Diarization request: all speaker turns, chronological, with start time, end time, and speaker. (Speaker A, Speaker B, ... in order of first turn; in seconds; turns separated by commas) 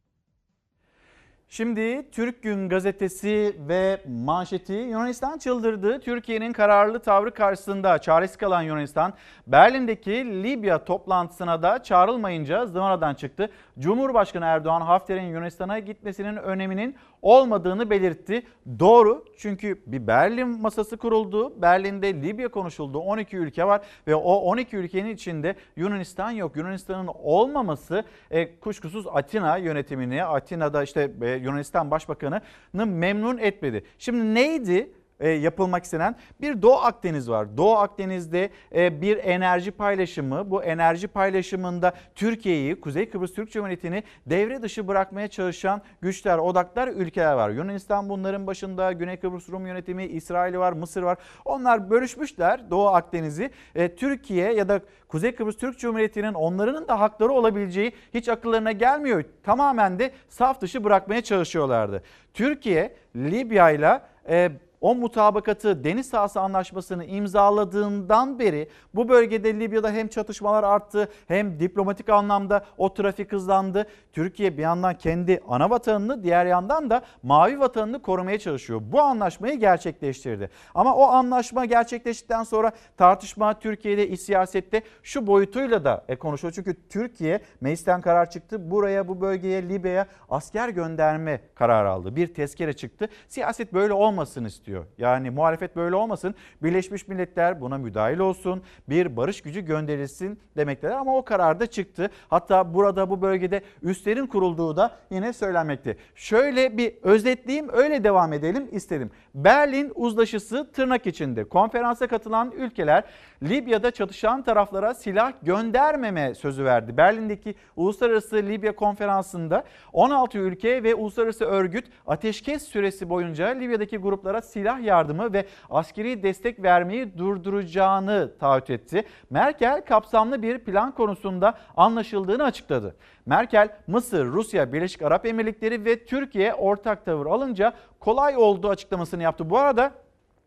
Speaker A: 1.5-139.9